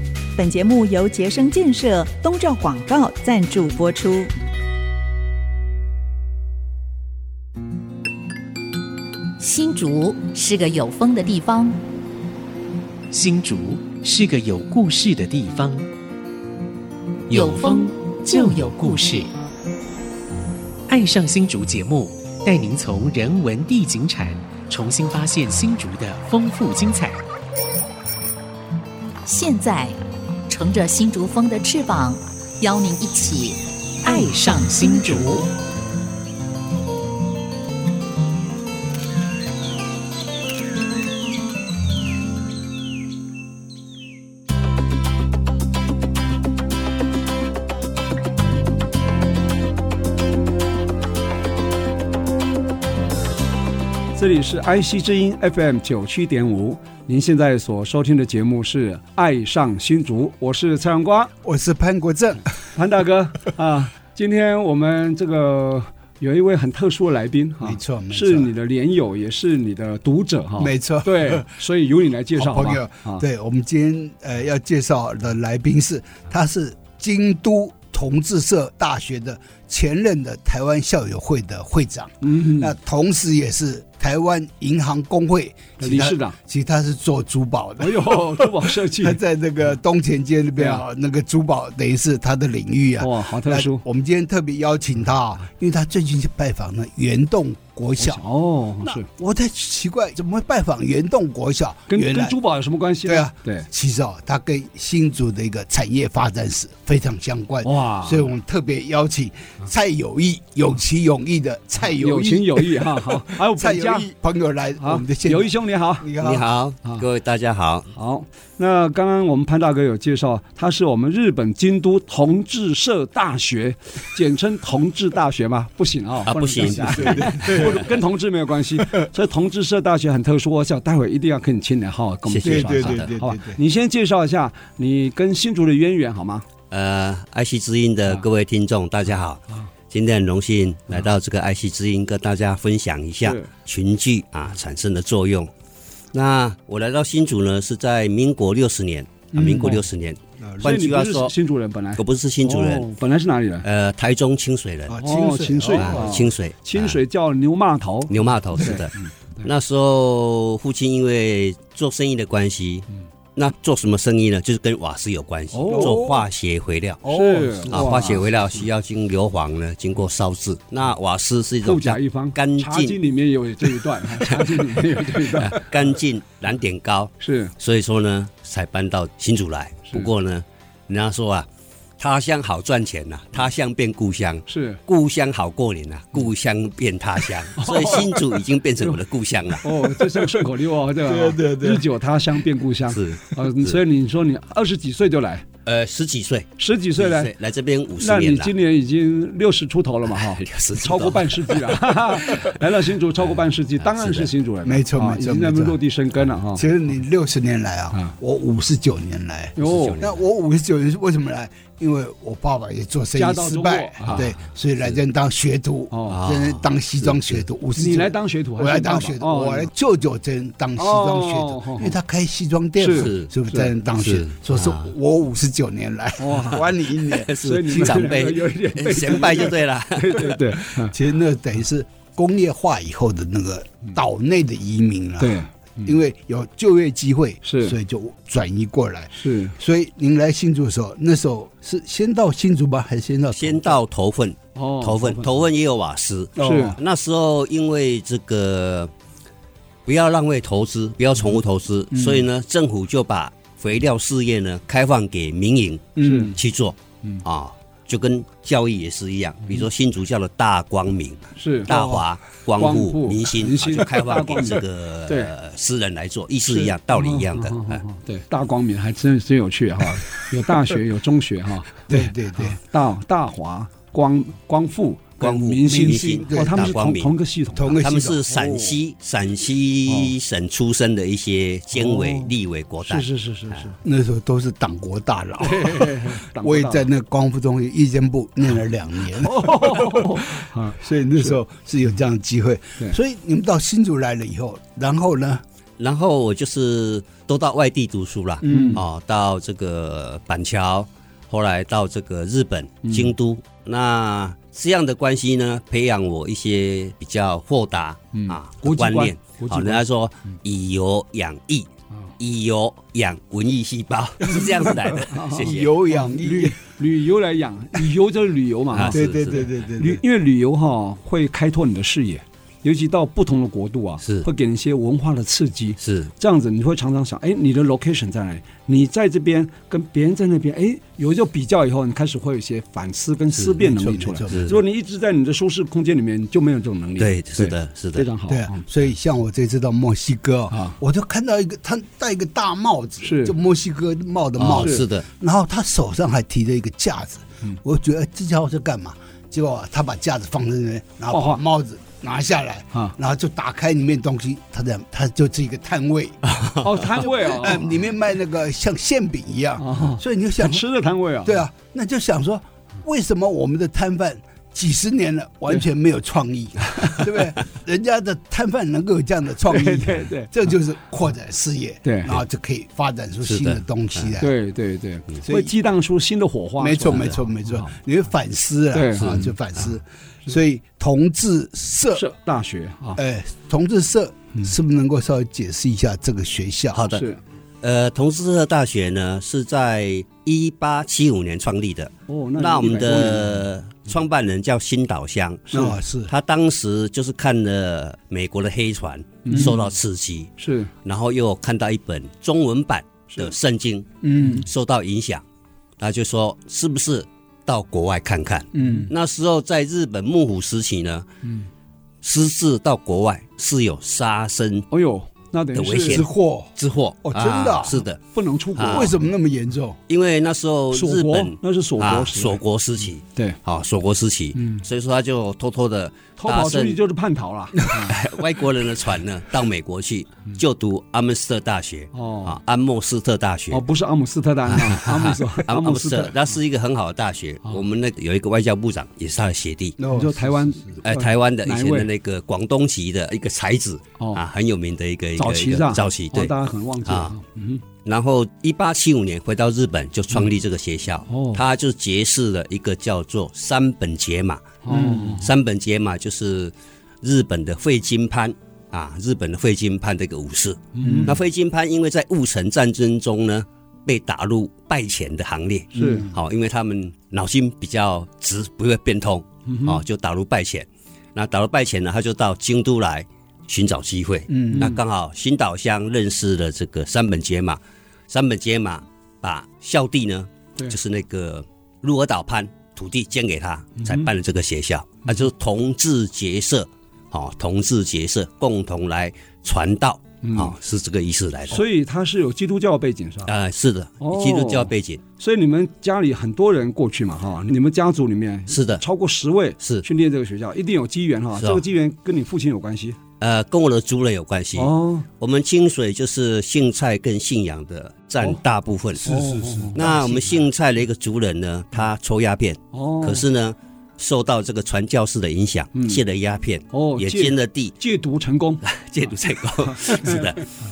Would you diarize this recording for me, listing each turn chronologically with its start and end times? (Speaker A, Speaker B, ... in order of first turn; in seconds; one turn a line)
Speaker A: 0.3-4.3
Speaker B: 9.4-11.8
Speaker C: 13.1-15.8
Speaker C: 17.3-19.3
Speaker C: 20.9-27.2
Speaker B: 29.2-30.0
Speaker B: 30.5-33.6
Speaker C: 34.0-35.5
Speaker B: 34.5-35.1
Speaker D: 54.1-61.3
Speaker E: 61.4-62.5
Speaker D: 62.7-73.2
Speaker E: 67.6-68.5
Speaker E: 70.6-71.5
Speaker E: 72.3-98.2
Speaker D: 82.2-82.7
Speaker D: 85.8-86.4
Speaker D: 87.8-89.2
Speaker D: 90.6-90.8
Speaker D: 93.0-93.8
Speaker D: 98.0-99.1
Speaker E: 98.8-102.4
Speaker D: 101.9-103.7
Speaker E: 103.0-116.5
Speaker D: 107.6-108.3
Speaker D: 111.9-114.1
Speaker D: 114.8-116.1
Speaker F: 116.2-117.9
Speaker D: 117.9-136.4
Speaker F: 126.2-127.9
Speaker E: 126.7-127.9
Speaker E: 128.8-129.1
Speaker F: 132.3-133.1
Speaker E: 132.4-133.6
Speaker F: 136.7-145.5
Speaker D: 143.2-143.5
Speaker F: 146.1-151.3
Speaker E: 149.4-149.7
Speaker D: 149.4-149.8
Speaker E: 150.4-150.7
Speaker D: 150.6-153.6
Speaker F: 151.9-152.8
Speaker F: 153.6-154.9
Speaker E: 154.9-156.2
Speaker D: 155.0-159.5
Speaker F: 155.7-157.0
Speaker F: 158.1-158.9
Speaker F: 159.4-167.0
Speaker D: 165.5-166.0
Speaker E: 165.7-166.2
Speaker E: 167.0-168.6
Speaker D: 167.1-168.2
Speaker F: 167.7-173.0
Speaker D: 171.6-175.6
Speaker F: 174.0-181.5
Speaker D: 177.2-177.5
Speaker F: 182.0-189.6
Speaker D: 184.5-184.8
Speaker D: 187.6-188.0
Speaker D: 189.6-195.4
Speaker E: 191.0-191.8
Speaker F: 192.9-193.8
Speaker F: 195.6-198.5
Speaker D: 196.6-197.3
Speaker D: 198.0-206.7
Speaker F: 200.2-202.6
Speaker F: 203.2-204.3
Speaker E: 204.6-205.8
Speaker E: 206.5-228.1
Speaker D: 209.6-210.0
Speaker F: 209.6-210.2
Speaker D: 213.2-214.2
Speaker F: 214.1-214.4
Speaker D: 215.9-216.2
Speaker F: 216.1-217.4
Speaker D: 217.8-219.7
Speaker D: 220.8-221.9
Speaker D: 222.8-223.7
Speaker F: 222.9-223.3
Speaker F: 224.0-224.9
Speaker D: 226.2-226.7
Speaker F: 227.1-230.6
Speaker D: 227.3-230.9
Speaker E: 230.8-243.8
Speaker D: 235.2-235.9
Speaker D: 237.4-237.8
Speaker D: 239.1-239.6
Speaker F: 243.3-248.9
Speaker D: 244.5-245.4
Speaker E: 246.4-246.8
Speaker D: 246.4-246.8
Speaker F: 249.8-267.8
Speaker E: 251.9-252.2
Speaker E: 255.9-256.3
Speaker D: 256.0-256.4
Speaker D: 261.4-261.7
Speaker E: 261.7-262.0
Speaker D: 262.6-265.3
Speaker D: 266.5-278.7
Speaker E: 271.9-272.6
Speaker F: 275.2-277.1
Speaker E: 275.6-276.7
Speaker E: 277.5-278.2
Speaker F: 277.8-283.6
Speaker D: 281.8-282.3
Speaker D: 282.9-283.8
Speaker E: 283.8-295.4
Speaker D: 285.4-286.9
Speaker D: 289.2-291.3
Speaker F: 295.8-315.7
Speaker E: 298.4-298.8
Speaker D: 298.4-298.8
Speaker D: 302.8-303.1
Speaker D: 308.1-309.8
Speaker D: 314.9-319.0
Speaker E: 315.3-316.6
Speaker F: 318.7-319.5
Speaker E: 318.9-320.0
Speaker D: 319.8-338.6
Speaker F: 325.8-326.1
Speaker E: 333.6-334.6
Speaker F: 334.3-334.6
Speaker F: 337.0-338.1
Speaker E: 338.3-360.6
Speaker D: 340.5-340.8
Speaker D: 343.0-343.3
Speaker F: 344.4-345.1
Speaker D: 344.6-344.9
Speaker D: 351.1-351.4
Speaker F: 356.3-356.6
Speaker D: 356.6-357.7
Speaker D: 359.6-361.4
Speaker E: 361.2-374.3
Speaker D: 369.5-370.3
Speaker D: 371.8-372.2
Speaker F: 373.2-374.1
Speaker D: 374.2-377.7
Speaker E: 375.2-375.5
Speaker E: 376.6-382.1
Speaker D: 378.7-379.3
Speaker F: 379.0-379.3
Speaker D: 381.9-383.0
Speaker E: 382.9-386.9
Speaker F: 386.7-387.0
Speaker D: 386.9-387.2
Speaker F: 387.6-405.2
Speaker D: 392.1-393.4
Speaker E: 395.5-396.1
Speaker D: 399.2-399.6
Speaker D: 400.4-400.7
Speaker E: 404.0-404.5
Speaker F: 405.8-411.1
Speaker E: 408.5-408.9
Speaker D: 408.6-408.9
Speaker F: 412.0-414.7
Speaker D: 414.7-416.0
Speaker F: 415.5-418.0
Speaker E: 415.9-416.5
Speaker E: 417.0-417.8
Speaker D: 418.1-418.9
Speaker F: 418.5-418.9
Speaker E: 418.7-419.8
Speaker F: 419.9-426.8
Speaker D: 420.7-422.4
Speaker D: 424.4-424.6
Speaker D: 426.2-428.0
Speaker F: 427.7-433.6
Speaker D: 431.9-432.4
Speaker D: 433.5-436.1
Speaker F: 434.5-439.8
Speaker E: 439.8-440.8
Speaker D: 439.9-441.9
Speaker F: 440.8-446.3
Speaker D: 444.0-444.2
Speaker D: 445.2-447.6
Speaker F: 446.8-447.1
Speaker F: 447.8-491.6
Speaker D: 451.1-451.4
Speaker D: 454.6-455.3
Speaker D: 460.8-461.1
Speaker E: 460.8-461.1
Speaker D: 465.7-466.1
Speaker E: 465.8-466.1
Speaker D: 469.5-469.8
Speaker E: 474.3-474.7
Speaker D: 474.5-474.8
Speaker D: 483.8-484.1
Speaker D: 490.2-490.5
Speaker D: 491.5-493.3
Speaker F: 493.2-495.0
Speaker D: 494.0-503.0
Speaker F: 498.5-498.8
Speaker F: 499.6-499.9
Speaker F: 501.4-501.6
Speaker F: 503.2-509.1
Speaker D: 504.6-505.1
Speaker D: 509.0-509.8
Speaker E: 509.0-510.3
Speaker F: 509.7-517.7
Speaker D: 512.7-513.2
Speaker D: 515.7-516.0
Speaker D: 516.7-518.6
Speaker F: 518.6-520.5
Speaker D: 519.7-520.4